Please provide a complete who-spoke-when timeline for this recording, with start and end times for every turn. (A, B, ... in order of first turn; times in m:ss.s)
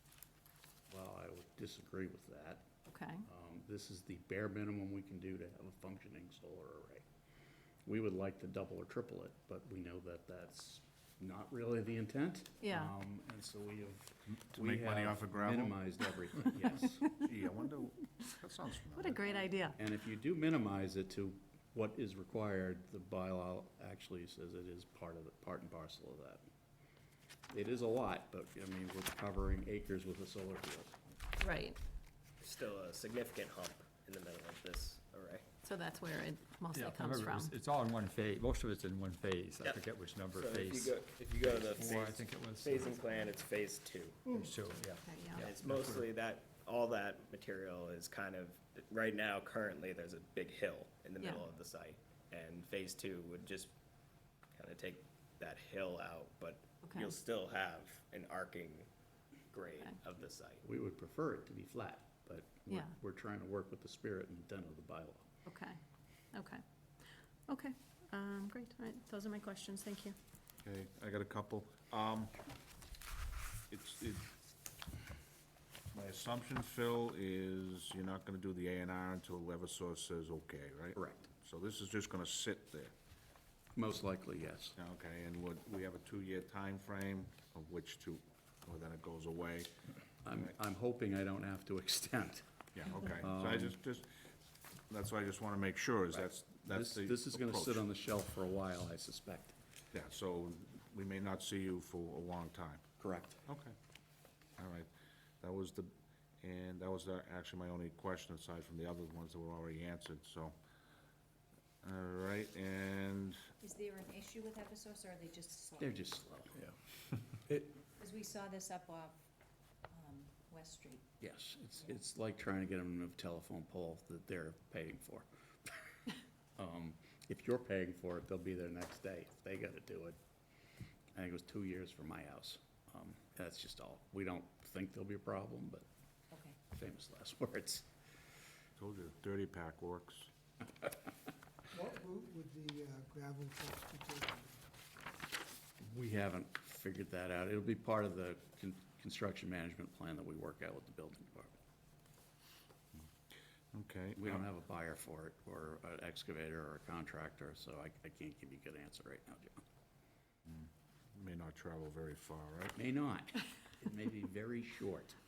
0:00.9-0:02.7 A
0:02.9-0:03.3 B
0:03.3-0:07.0 A
0:07.8-0:17.0 A
0:12.6-0:12.9 B
0:14.3-0:15.8 C
0:16.6-0:19.5 C
0:19.0-0:19.8 B
0:19.8-0:26.4 A
0:27.5-0:31.0 A
0:31.4-0:31.8 B
0:32.4-0:35.4 D
0:35.6-0:37.5 B
0:36.7-0:43.0 E
0:39.6-0:44.4 D
0:44.4-0:46.1 E
0:45.0-0:45.5 B
0:45.4-0:53.7 D
0:54.6-0:58.9 D
0:56.8-0:57.1 B
0:59.5-1:00.6 D
1:00.6-1:05.3 A
1:05.5-1:05.8 B
1:06.3-1:06.6 B
1:07.5-1:10.2 B
1:10.6-1:12.4 C
1:13.7-1:14.3 C
1:15.9-1:22.9 C
1:21.0-1:21.3 A
1:23.8-1:24.8 A
1:24.8-1:29.7 C
1:30.2-1:32.4 A
1:32.7-1:34.1 C
1:33.0-1:33.8 A
1:34.9-1:37.8 C
1:36.1-1:39.6 A
1:39.9-1:42.8 C
1:43.0-1:43.4 A
1:43.5-1:43.7 C
1:44.6-1:44.9 C
1:45.4-1:50.5 C
1:51.8-1:53.4 C
1:53.6-1:56.2 F
1:55.8-1:56.7 A
1:58.0-1:59.2 F
1:59.9-2:01.0 F
2:01.2-2:05.8 A
2:06.6-2:10.2 A
2:11.1-2:15.8 A
2:16.3-2:16.6 F
2:16.7-2:17.9 A
2:18.8-2:20.3 C
2:21.7-2:24.6 G
2:25.8-2:31.5 A
2:33.7-2:34.5 C
2:34.2-2:39.6 A
2:40.5-2:42.8 C
2:42.8-2:45.2 A